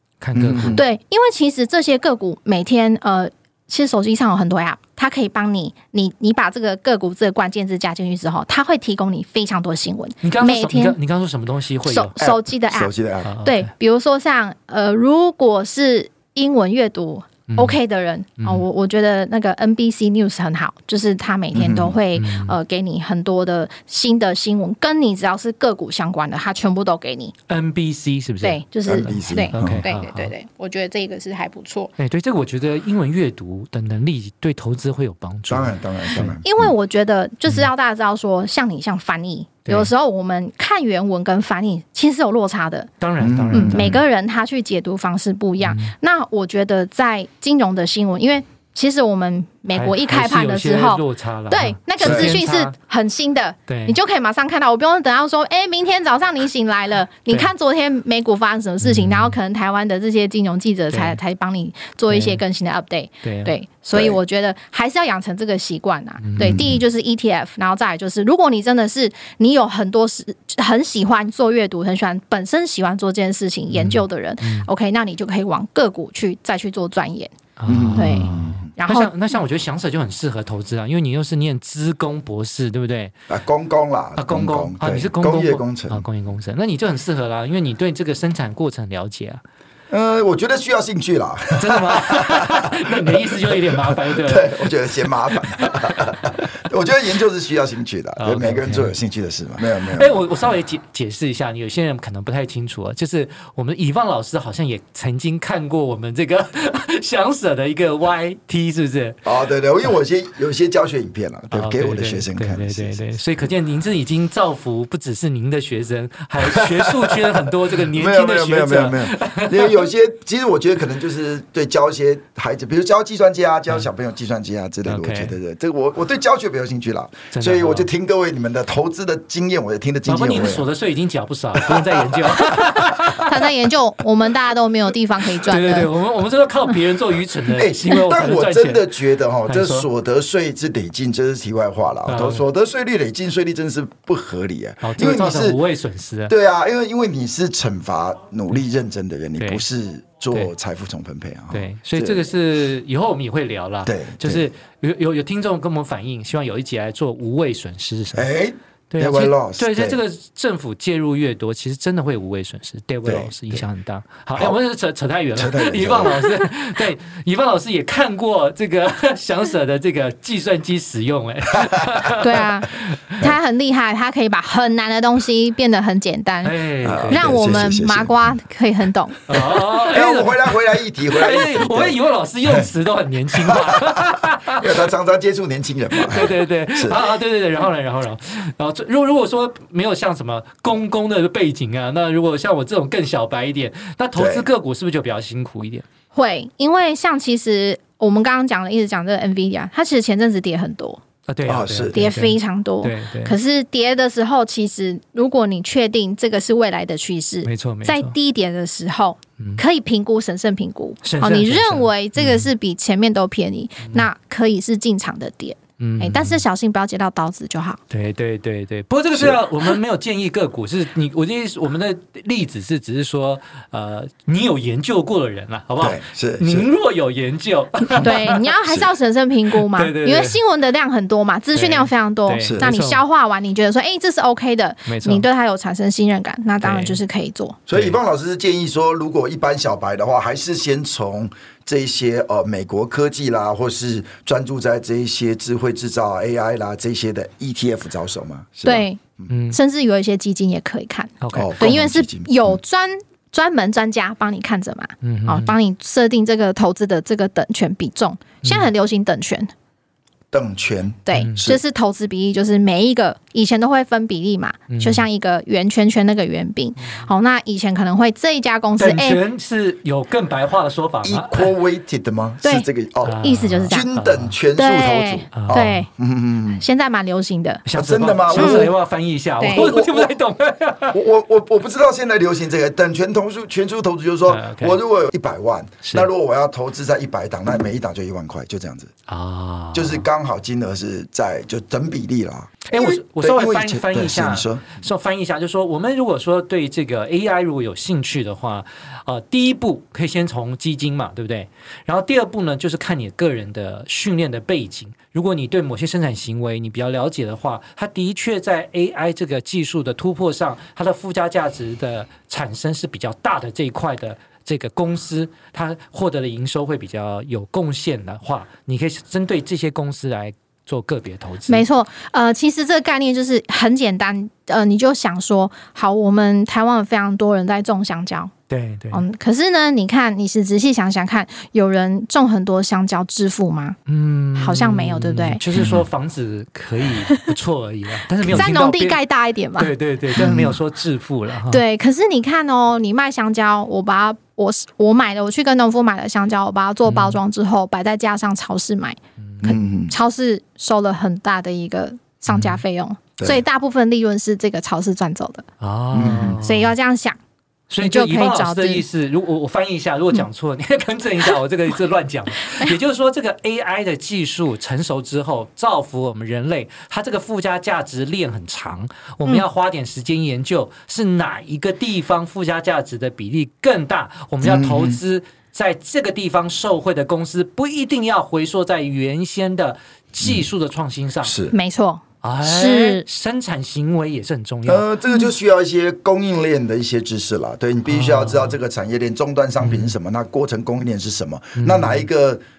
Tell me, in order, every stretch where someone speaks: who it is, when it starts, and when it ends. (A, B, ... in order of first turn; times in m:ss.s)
0:00.2-0:00.8 A
0:00.3-0:00.8 B
0:00.7-0:11.0 C
0:10.2-0:12.1 A
0:11.8-0:12.9 C
0:12.2-0:13.3 B
0:13.2-0:13.7 A
0:13.4-0:27.3 C
0:17.5-0:17.8 A
0:21.5-0:22.0 B
0:22.1-0:22.5 A
0:27.5-0:28.6 A
0:28.4-0:31.9 C
0:28.8-0:29.8 B
0:29.5-0:30.3 A
0:32.0-0:36.4 A
0:35.5-0:36.7 B
0:36.4-0:42.9 C
0:43.0-0:44.0 A
0:43.2-0:44.0 B
0:43.5-1:17.3 C
0:45.6-0:45.9 A
0:49.8-0:52.7 A
0:52.0-0:52.3 B
0:53.7-0:54.0 A
0:58.8-0:59.4 A
1:00.9-1:01.2 A
1:02.1-1:02.4 A
1:03.2-1:03.5 A
1:03.9-1:04.2 B
1:06.2-1:06.7 A
1:06.4-1:06.8 B
1:13.7-1:14.7 A
1:17.6-1:23.1 A
1:17.7-1:18.7 B
1:17.9-1:19.1 C
1:23.3-1:26.0 B
1:24.2-1:29.4 A
1:29.9-1:40.2 B
1:31.6-1:34.7 A
1:38.2-1:38.9 A
1:39.7-1:49.2 A
1:49.2-1:53.0 B
1:51.5-1:59.8 A
1:56.4-2:10.7 B
2:04.8-2:05.3 A
2:07.3-2:07.9 A
2:10.0-2:13.6 A
2:11.6-2:12.6 B
2:13.2-2:15.9 C
2:15.4-2:18.8 A
2:17.5-2:25.6 B
2:19.5-2:19.9 A
2:22.1-2:22.4 A
2:24.8-2:26.3 A
2:26.3-2:32.3 B
2:29.4-2:29.6 A
2:31.5-2:38.3 A
2:33.8-2:34.5 B
2:38.1-2:40.0 B
2:38.9-2:53.3 A
2:43.0-2:43.6 B
2:45.3-2:46.2 B
2:52.2-2:56.5 C
2:56.4-2:57.4 A
2:56.8-2:58.2 B
2:57.1-2:59.2 C
2:59.3-3:04.8 A
2:59.3-3:02.7 B
3:03.3-3:07.0 B
3:05.9-3:15.8 A
3:14.2-3:14.5 B
3:16.1-3:21.0 C
3:21.3-3:23.4 A
3:21.4-3:22.0 B
3:21.9-3:37.8 C
3:27.4-3:28.1 A
3:31.0-3:32.5 A
3:35.8-3:36.4 A
3:37.9-3:48.4 A
3:39.1-3:39.4 B
3:45.8-3:46.7 B
3:47.9-3:57.6 C
3:49.7-3:50.4 A
3:51.5-3:53.0 A
3:52.4-3:52.7 B
3:54.8-3:55.2 A
3:56.6-3:57.0 A
3:57.7-4:09.3 B
3:57.7-3:58.0 A
4:08.6-4:09.0 C
4:09.3-4:09.6 A
4:09.5-4:19.5 C
4:11.2-4:11.6 A
4:11.3-4:12.6 B
4:15.0-4:15.5 A
4:20.3-4:21.6 B
4:21.1-4:29.2 C
4:21.2-4:21.5 A
4:24.7-4:25.0 A
4:28.8-4:31.5 A
4:31.0-4:36.6 B
4:32.4-4:32.7 C
4:33.0-4:34.4 A
4:33.2-4:33.9 C
4:34.5-4:35.9 C
4:35.3-4:35.7 A
4:36.5-4:37.6 C
4:37.6-4:41.0 A
4:37.7-4:38.7 B
4:38.3-4:38.7 C
4:39.4-4:39.7 C
4:39.5-4:40.1 B
4:40.9-4:48.9 B
4:44.3-4:44.8 A
4:45.8-4:46.1 A
4:49.1-4:50.0 A
4:49.7-4:54.8 B
4:52.7-5:21.6 A
5:21.5-5:28.3 C
5:28.5-5:29.0 A
5:28.9-5:33.8 C
5:33.9-5:39.0 A
5:34.4-5:35.4 C
5:35.6-5:35.8 B
5:38.2-5:39.7 C
5:39.6-5:41.6 A
5:40.1-5:40.6 B
5:41.5-5:49.0 C
5:46.8-5:47.2 A
5:49.4-5:49.9 B
5:49.5-5:55.4 C
5:52.3-5:52.6 A
5:55.6-5:56.7 A
5:55.9-5:56.4 B
5:56.4-5:57.2 C
5:57.7-6:21.4 A
5:57.8-5:58.8 C
6:14.4-6:15.0 B
6:21.2-6:21.5 B
6:21.5-6:23.0 C
6:22.2-6:24.8 A
6:24.6-6:32.4 B
6:27.9-6:28.6 A
6:29.6-6:29.9 A
6:31.6-6:32.0 A